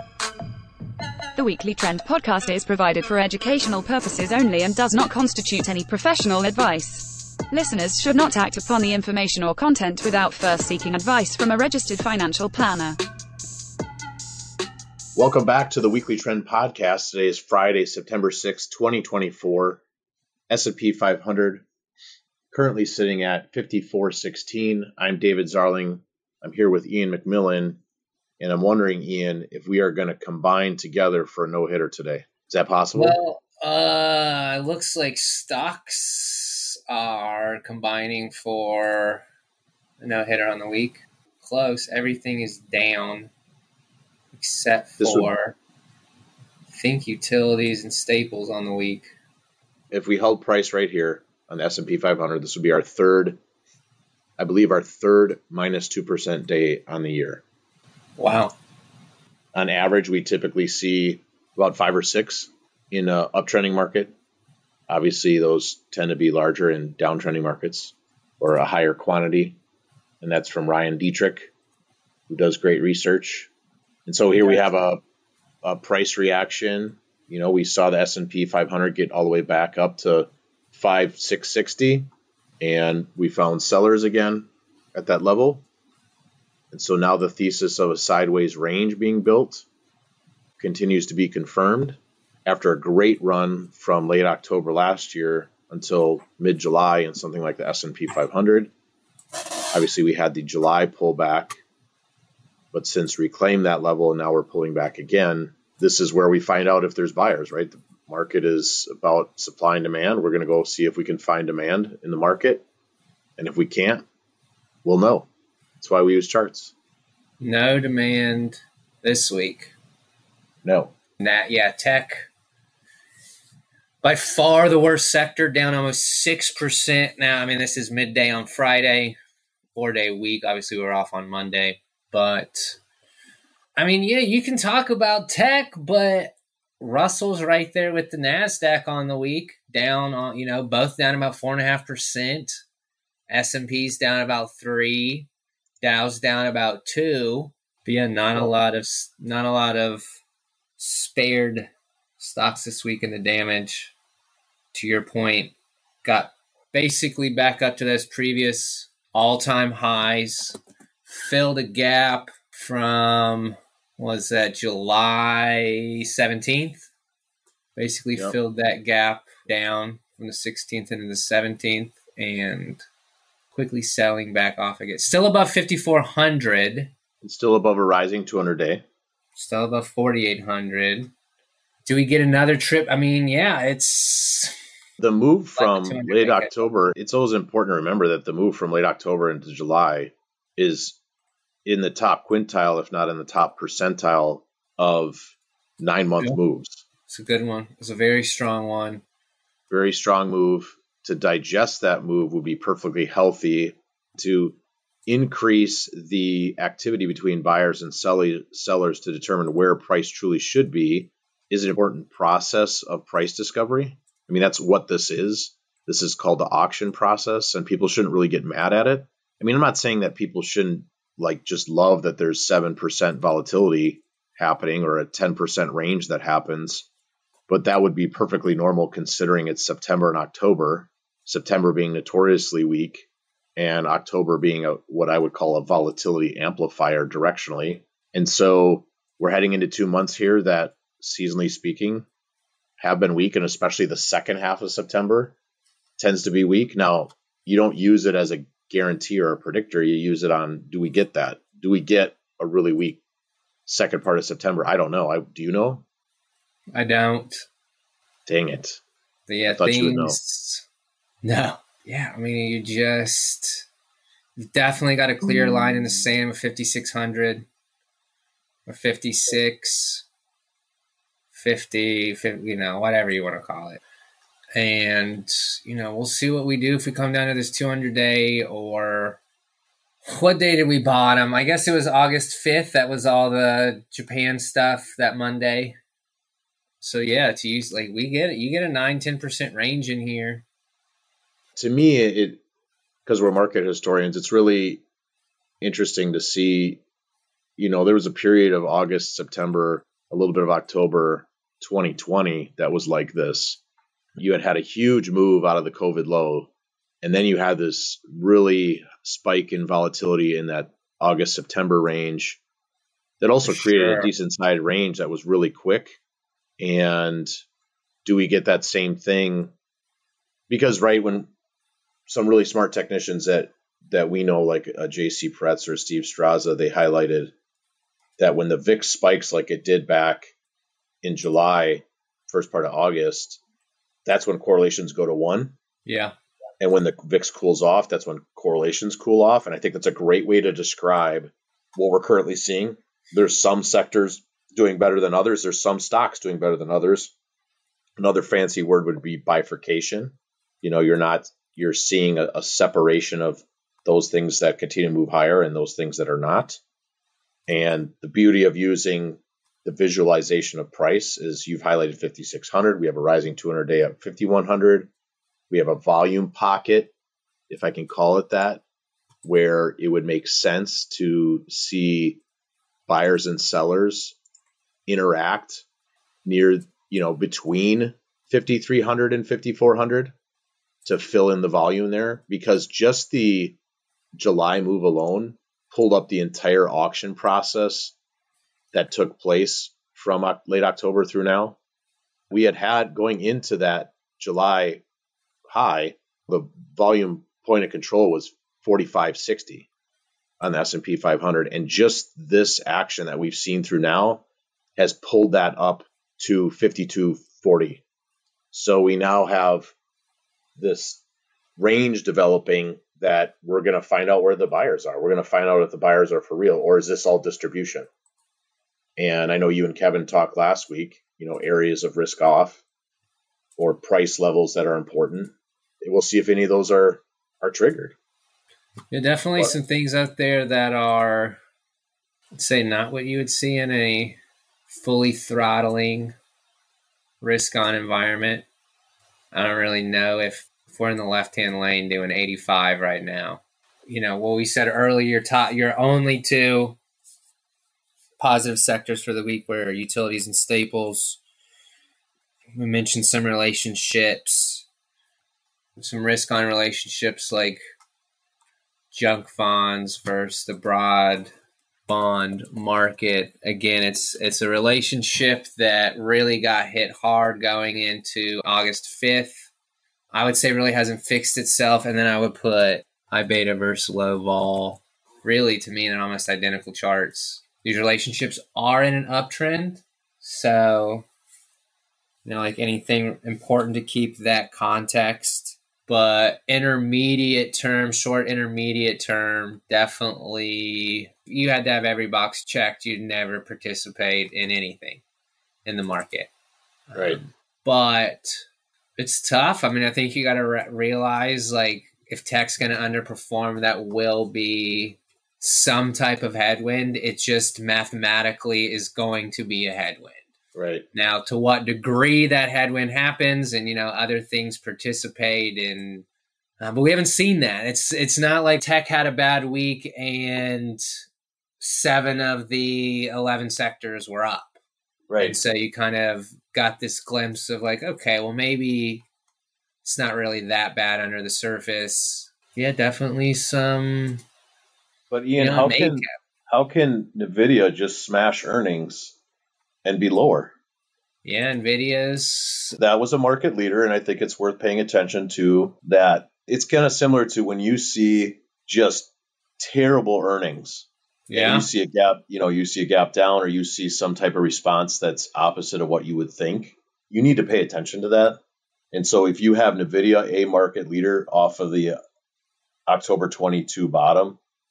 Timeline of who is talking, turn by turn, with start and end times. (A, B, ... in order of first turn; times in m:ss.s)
0:01.3-0:13.0 A
0:15.2-0:19.8 B
0:20.5-0:21.6 B
0:22.5-0:27.8 B
0:28.4-0:33.2 B
0:32.9-0:39.2 C
0:40.0-0:43.3 C
0:44.3-0:45.6 C
0:45.0-0:45.3 B
0:46.7-0:49.1 C
0:49.9-0:53.4 B
0:54.4-0:57.4 B
0:58.2-0:58.5 C
0:59.5-1:04.1 B
1:04.9-1:09.6 B
1:10.2-1:11.5 B
1:12.3-1:13.5 B
1:14.0-1:15.0 B
1:14.4-1:14.7 C
1:15.6-1:22.1 B
1:22.6-1:25.6 B
1:26.7-1:29.6 B
1:30.6-1:38.7 B
1:39.7-1:41.6 B
1:42.7-1:52.6 B
1:53.4-1:54.0 B
1:54.8-1:55.3 B
1:55.8-1:56.7 B
1:57.4-1:59.7 C
2:00.6-2:00.9 B
2:01.2-2:02.3 C
2:04.0-2:09.2 C
2:09.7-2:12.8 C
2:13.8-2:22.6 C
2:23.3-2:25.3 C
2:25.8-2:30.0 C
2:30.8-2:33.9 C
2:34.7-2:46.9 C
2:47.8-2:52.8 C
2:53.5-2:56.9 C
2:57.2-2:58.8 B
2:59.4-3:01.1 C
3:01.8-3:04.5 C
3:05.0-3:11.0 B
3:05.6-3:06.7 C
3:11.6-3:16.8 B
3:17.1-3:19.0 C
3:19.7-3:46.9 B
3:47.5-4:02.1 B
4:02.8-4:05.3 B
4:06.0-4:13.0 B
4:13.6-4:15.8 B
4:16.7-4:17.4 C
4:18.2-4:18.8 B
4:19.3-4:20.6 C
4:19.5-4:20.2 B
4:21.2-4:23.7 C
4:24.4-4:27.4 C
4:28.6-4:30.0 C
4:31.3-4:33.8 C
4:34.5-4:39.2 C
4:40.0-4:45.8 C
4:46.8-4:50.4 C
4:51.6-4:52.4 B
4:53.0-4:54.8 B
4:55.6-4:56.8 B
4:57.6-5:03.6 B
5:04.2-5:06.5 B
5:07.0-5:12.4 B
5:13.2-5:16.0 B
5:13.4-5:14.1 C
5:16.6-5:17.3 B
5:18.0-5:19.5 B
5:20.5-5:21.3 B
5:22.1-5:27.3 B
5:28.2-5:30.3 B
5:31.0-5:33.4 B
5:34.0-5:35.5 B
5:35.8-5:36.1 C
5:36.6-5:47.1 B
5:48.0-5:56.6 B
5:57.5-6:04.9 B
6:05.5-6:06.9 B
6:07.5-6:08.6 B
6:09.2-6:12.2 B
6:12.9-6:14.2 B
6:14.9-6:15.6 B
6:16.2-6:20.1 B
6:20.8-6:23.6 B
6:24.1-6:27.9 B
6:28.7-6:31.6 B
6:32.3-6:34.8 B
6:35.4-6:39.7 B
6:40.4-6:44.2 B
6:44.8-6:47.8 B
6:48.5-6:49.7 B
6:50.6-6:51.0 B
6:51.6-6:57.9 B
6:59.0-7:02.6 B
7:03.6-7:07.9 B
7:08.9-7:11.4 C
7:12.4-7:14.2 C
7:14.7-7:16.1 C
7:17.2-7:18.4 C
7:19.3-7:26.8 C
7:28.2-7:31.2 C
7:32.5-7:34.6 C
7:35.8-7:37.6 C
7:38.9-7:41.3 C
7:41.9-7:49.5 C
7:50.1-8:01.0 C
8:02.2-8:15.0 C
8:15.6-8:16.3 C
8:16.9-8:18.4 C
8:16.9-8:17.2 B
8:19.0-8:30.2 C
8:30.5-8:30.8 B
8:30.9-8:36.0 C
8:36.6-8:40.8 C
8:41.6-8:44.6 C
8:45.1-8:45.4 B
8:45.2-8:49.0 C
8:49.8-8:54.2 C
8:55.1-8:59.2 B
8:55.4-8:56.1 C
8:59.8-9:00.5 B
9:01.2-9:02.8 C
9:02.8-9:18.4 B
9:11.3-9:11.7 C
9:18.9-9:22.0 B
9:22.9-9:24.4 B